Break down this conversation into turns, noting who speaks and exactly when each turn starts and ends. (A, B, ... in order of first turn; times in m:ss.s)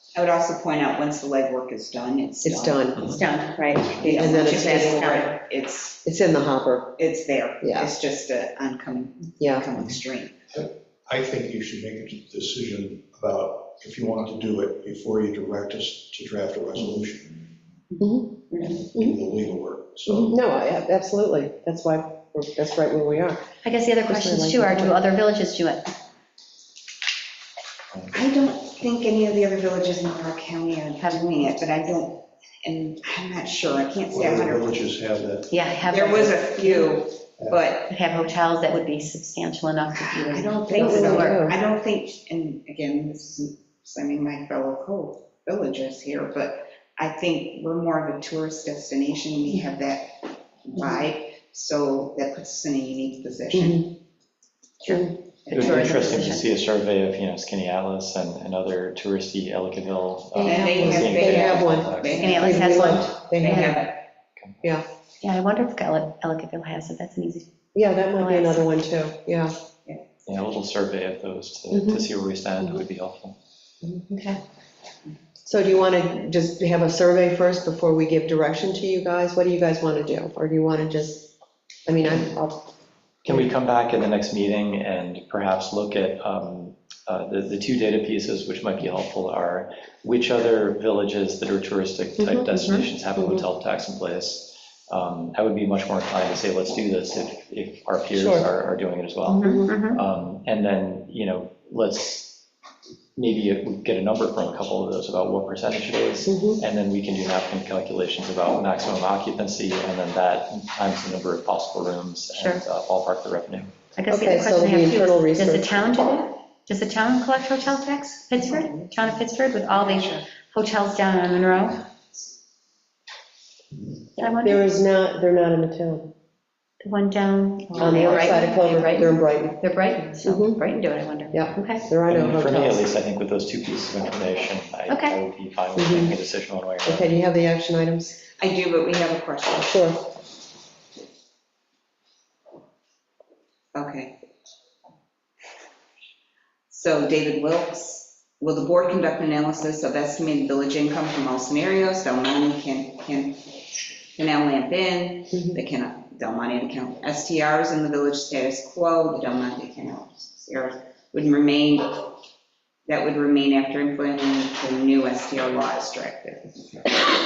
0:00.1-0:06.0 A
0:02.4-0:03.2 B
0:03.1-0:05.4 C
0:04.0-0:05.1 B
0:06.0-0:07.0 B
0:07.0-0:10.4 A
0:07.6-0:07.9 B
0:09.4-0:09.7 B
0:10.5-0:17.4 D
0:18.0-0:19.2 B
0:18.6-0:20.4 D
0:20.1-0:23.4 B
0:23.6-0:25.9 C
0:24.0-0:25.0 B
0:28.1-0:34.8 A
0:31.0-0:31.3 C
0:34.1-0:35.5 D
0:35.5-0:36.9 C
0:35.8-0:37.9 A
0:37.9-0:41.5 C
0:39.9-0:54.0 A
0:40.7-0:41.6 B
0:53.5-0:53.9 B
0:54.8-0:56.5 C
0:54.9-0:55.2 B
0:55.4-0:55.9 A
0:55.5-1:02.2 E
1:00.4-1:04.0 A
1:00.4-1:00.9 C
1:00.4-1:03.9 B
1:02.1-1:03.9 C
1:05.2-1:07.5 C
1:07.7-1:09.5 B
1:08.2-1:08.6 C
1:10.2-1:13.4 E
1:11.7-1:12.0 B
1:13.8-1:14.2 B
1:14.1-1:14.4 C
1:15.4-1:21.3 B
1:21.8-1:22.7 B
1:23.2-1:23.5 B
1:23.2-1:42.4 E
1:32.2-1:33.4 B
1:38.1-1:38.5 B
1:39.3-1:40.0 C
1:39.4-1:39.7 B
1:43.2-1:53.7 E
1:46.2-1:46.6 B
1:52.3-1:52.6 C
1:54.0-2:01.8 C
1:54.1-1:55.9 B
1:58.5-1:59.0 A
1:59.7-2:00.2 A
2:04.2-2:04.8 C
2:04.4-2:06.1 B
2:06.8-2:11.8 C
2:07.7-2:09.2 A
2:07.8-2:09.6 B
2:10.2-2:10.6 B
2:11.3-2:12.9 B
2:12.1-2:17.1 E
2:14.9-2:15.2 C
2:15.8-2:16.2 B
2:16.8-2:18.2 B
2:18.4-2:19.8 A
2:19.7-2:20.1 B
2:23.7-2:24.1 A
2:26.7-2:33.6 A
2:34.2-2:42.1 A
2:42.9-2:46.8 A